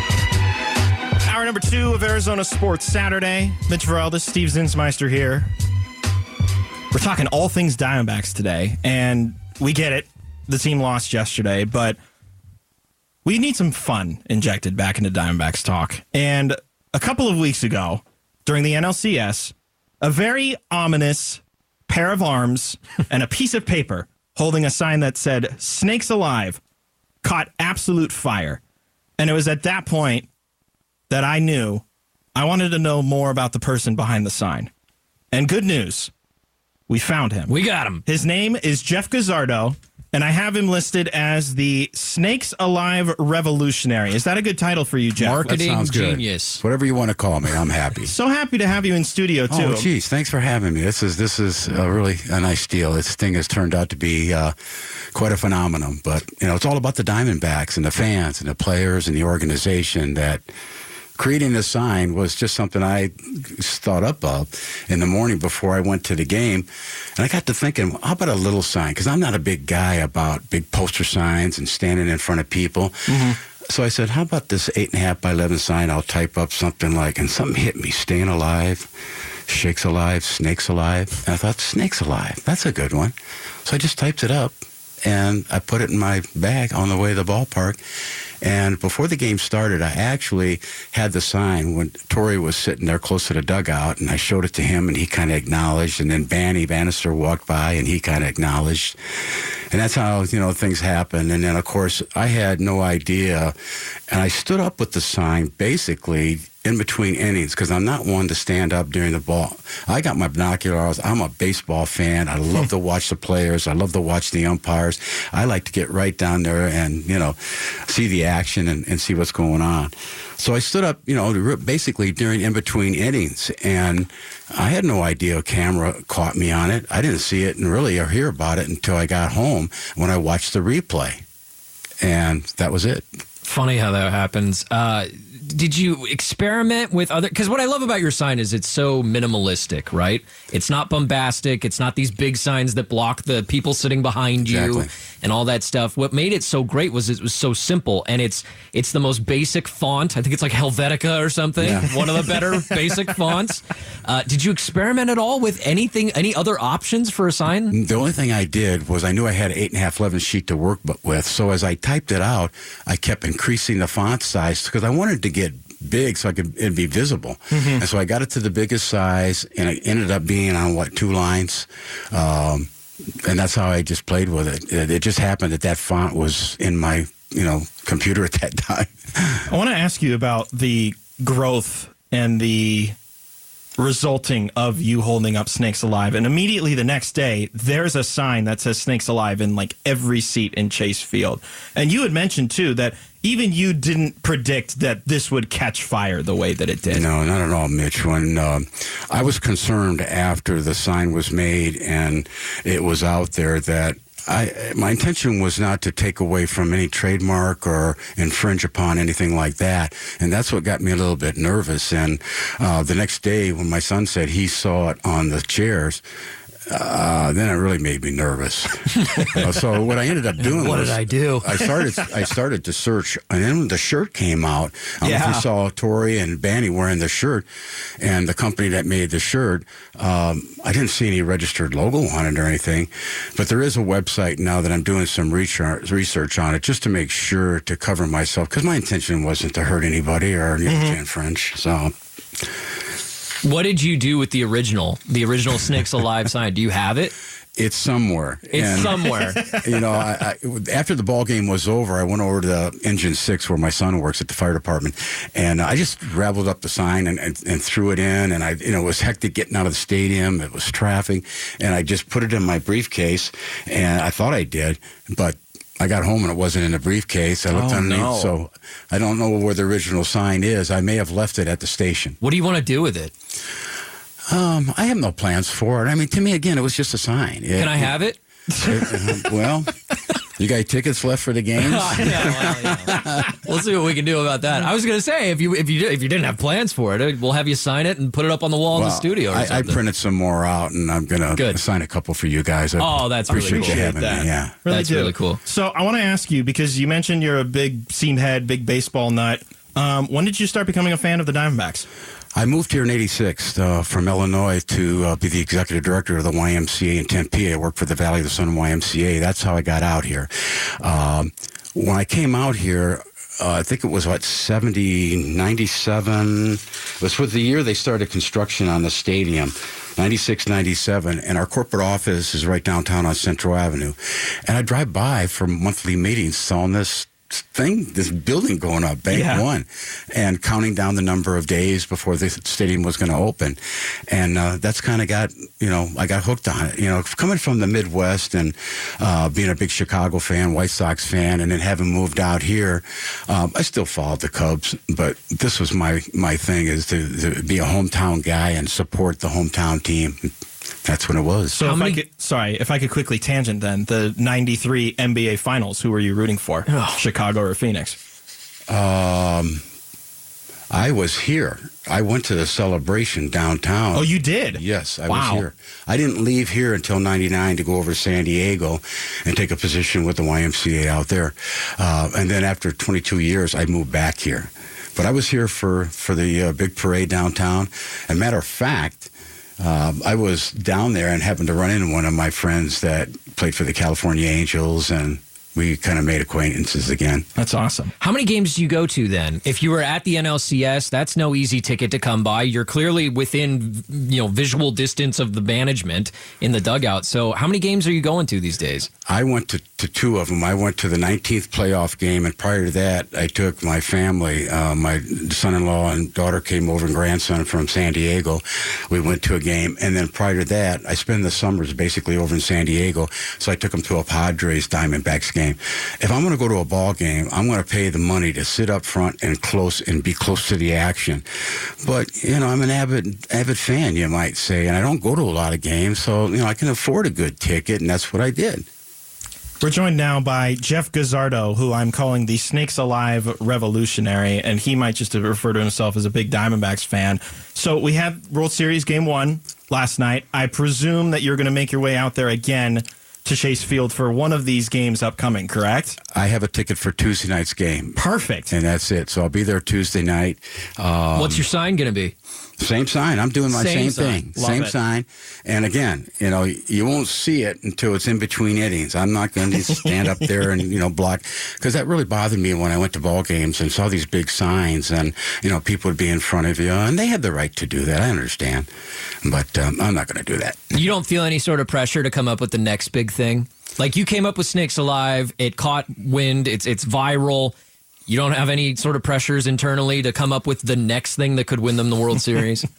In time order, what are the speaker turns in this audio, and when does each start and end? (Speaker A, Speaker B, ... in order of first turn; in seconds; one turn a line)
Speaker A: 1.2-5.5
Speaker A: 6.9-12.0
Speaker A: 13.2-26.6
Speaker A: 27.2-28.6
Speaker A: 29.2-30.3
Speaker A: 31.1-31.8
Speaker A: 32.4-34.7
Speaker A: 35.3-36.1
Speaker A: 36.9-37.5
Speaker B: 37.5-38.0
Speaker A: 38.1-45.5
Speaker B: 45.2-46.6
Speaker C: 45.4-48.1
Speaker A: 48.0-49.9
Speaker C: 49.5-54.5
Speaker C: 55.1-60.4
Speaker C: 61.2-78.9
Speaker A: 73.1-73.4
Speaker C: 79.5-83.1
Speaker C: 83.7-87.8
Speaker C: 88.4-103.5
Speaker C: 104.1-131.2
Speaker C: 132.0-133.1
Speaker B: 133.4-157.8
Speaker C: 144.4-144.9
Speaker C: 151.6-151.9
Speaker C: 157.7-179.4
Speaker A: 167.5-167.8
Speaker A: 179.5-183.0
Speaker A: 183.8-197.0
Speaker C: 196.9-216.0
Speaker C: 216.7-227.5
Speaker B: 220.4-221.7
Speaker A: 225.0-225.5
Speaker C: 228.0-242.5
Speaker A: 240.7-241.0
Speaker B: 243.4-247.1
Speaker C: 247.6-272.2
Speaker B: 248.5-249.4
Speaker A: 249.4-249.7
Speaker B: 267.5-268.3
Speaker B: 272.2-273.1
Speaker C: 274.3-277.9
Speaker B: 277.6-278.2
Speaker A: 278.5-279.2
Speaker C: 278.6-283.4
Speaker B: 281.6-289.8
Speaker C: 288.7-294.6
Speaker B: 291.4-291.6
Speaker B: 292.8-293.8
Speaker A: 293.3-301.9
Speaker B: 294.7-295.4
Speaker C: 302.4-350.3
Speaker A: 329.1-329.4
Speaker C: 350.8-351.6
Speaker A: 351.5-358.0
Speaker B: 351.6-352.0
Speaker B: 356.7-357.0
Speaker C: 358.7-359.6
Speaker C: 360.7-387.3
Speaker A: 363.9-365.4
Speaker A: 387.4-387.9
Speaker B: 388.0-398.9
Speaker C: 399.1-421.2
Speaker C: 421.8-428.7
Speaker A: 429.6-446.0
Speaker C: 446.1-451.4
Speaker A: 448.0-448.5
Speaker B: 451.1-452.1
Speaker C: 452.6-468.7
Speaker B: 453.5-454.2
Speaker A: 454.4-454.7
Speaker C: 469.2-470.7
Speaker B: 470.7-477.6
Speaker B: 478.1-482.7